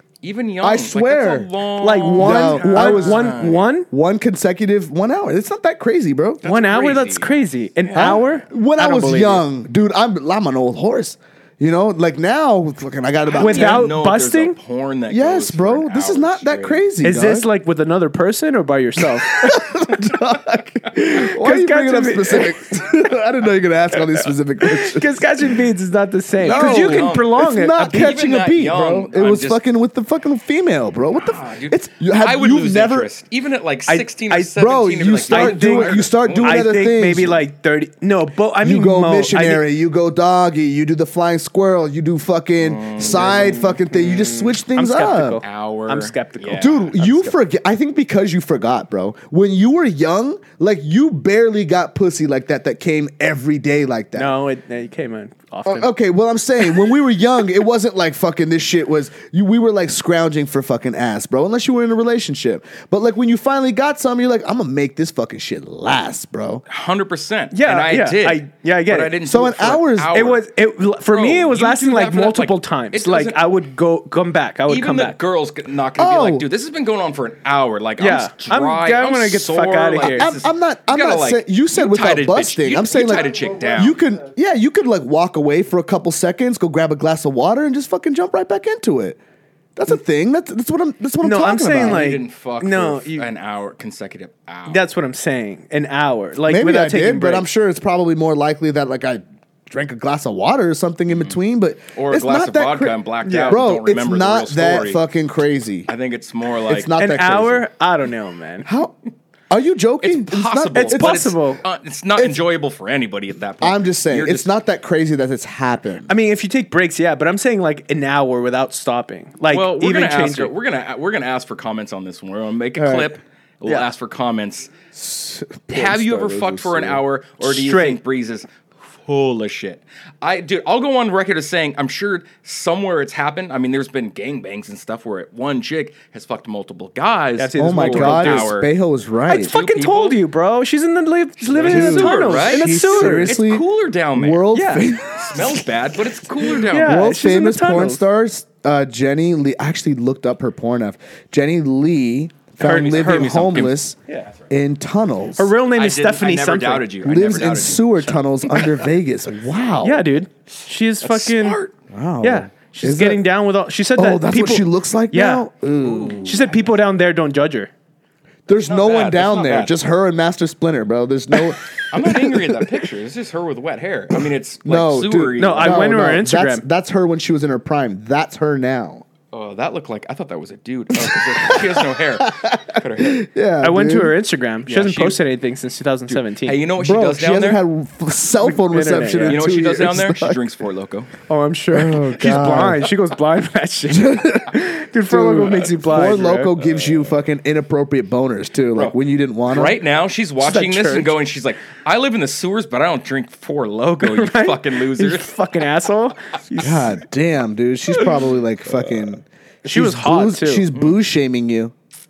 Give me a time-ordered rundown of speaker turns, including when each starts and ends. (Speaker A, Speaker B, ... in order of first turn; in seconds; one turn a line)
Speaker A: 0.2-3.7
Speaker B: 0.6-1.5
Speaker C: 1.8-3.9
Speaker B: 2.2-3.3
Speaker B: 3.9-6.4
Speaker A: 6.4-7.3
Speaker C: 6.4-9.4
Speaker A: 7.9-8.3
Speaker B: 8.0-13.9
Speaker A: 13.3-16.8
Speaker C: 13.4-14.6
Speaker B: 15.1-17.5
Speaker C: 17.0-19.7
Speaker B: 19.3-25.2
Speaker C: 21.1-22.6
Speaker C: 24.6-28.1
Speaker A: 26.4-29.6
Speaker B: 26.4-33.1
Speaker A: 31.1-36.7
Speaker C: 33.9-34.6
Speaker B: 34.6-37.4
Speaker C: 35.3-39.7
Speaker B: 38.6-45.4
Speaker A: 42.6-43.8
Speaker C: 43.1-47.4
Speaker A: 45.4-47.0
Speaker B: 46.6-54.3
Speaker C: 54.1-55.9
Speaker B: 55.7-66.6
Speaker A: 66.7-70.5
Speaker C: 67.5-69.2
Speaker B: 69.2-70.2
Speaker C: 70.1-75.2
Speaker A: 71.1-73.4
Speaker A: 74.7-84.0
Speaker B: 76.0-76.5
Speaker C: 78.0-80.4
Speaker B: 80.1-89.2
Speaker B: 89.8-92.1
Speaker C: 91.2-93.3
Speaker A: 91.8-94.8
Speaker C: 94.7-97.5
Speaker B: 96.5-105.9
Speaker A: 101.1-101.4
Speaker A: 102.0-105.0
Speaker C: 103.2-103.6
Speaker A: 105.9-107.0
Speaker B: 106.7-107.7
Speaker C: 107.0-108.7
Speaker B: 108.7-109.0
Speaker B: 109.5-111.3
Speaker A: 110.0-114.5
Speaker C: 110.7-111.6
Speaker B: 112.2-112.4
Speaker B: 113.6-116.1
Speaker C: 116.1-120.5
Speaker A: 119.5-124.7
Speaker B: 122.8-123.2
Speaker B: 124.9-127.0
Speaker A: 125.7-138.7
Speaker C: 127.4-128.0
Speaker C: 137.4-138.5
Speaker B: 137.6-139.5
Speaker C: 139.3-143.4
Speaker A: 139.5-140.2
Speaker A: 141.5-147.0
Speaker B: 141.6-145.7
Speaker C: 144.5-144.9
Speaker B: 146.4-154.0
Speaker C: 146.7-148.0
Speaker A: 152.6-153.8
Speaker B: 154.5-155.5
Speaker C: 155.4-156.9
Speaker A: 155.7-158.9
Speaker B: 157.0-160.1
Speaker C: 159.8-161.6
Speaker A: 161.0-161.8
Speaker B: 161.9-163.2
Speaker C: 162.2-165.5
Speaker B: 164.0-166.2
Speaker A: 165.8-166.6
Speaker C: 166.2-167.7
Speaker B: 168.5-172.8
Speaker A: 168.5-169.8
Speaker A: 171.9-175.9
Speaker B: 174.7-179.1
Speaker C: 175.4-176.7
Speaker A: 179.3-183.3
Speaker B: 180.9-184.1
Speaker C: 183.6-186.6
Speaker A: 184.7-185.2
Speaker A: 186.1-187.6
Speaker B: 186.8-190.4
Speaker C: 188.5-189.5
Speaker A: 189.3-191.1
Speaker C: 191.3-196.6
Speaker B: 191.7-192.9
Speaker B: 193.9-199.8
Speaker A: 195.9-197.1
Speaker A: 198.7-205.5
Speaker C: 200.4-201.1
Speaker C: 204.0-207.0
Speaker B: 206.6-211.7
Speaker C: 209.6-210.7
Speaker A: 210.7-211.0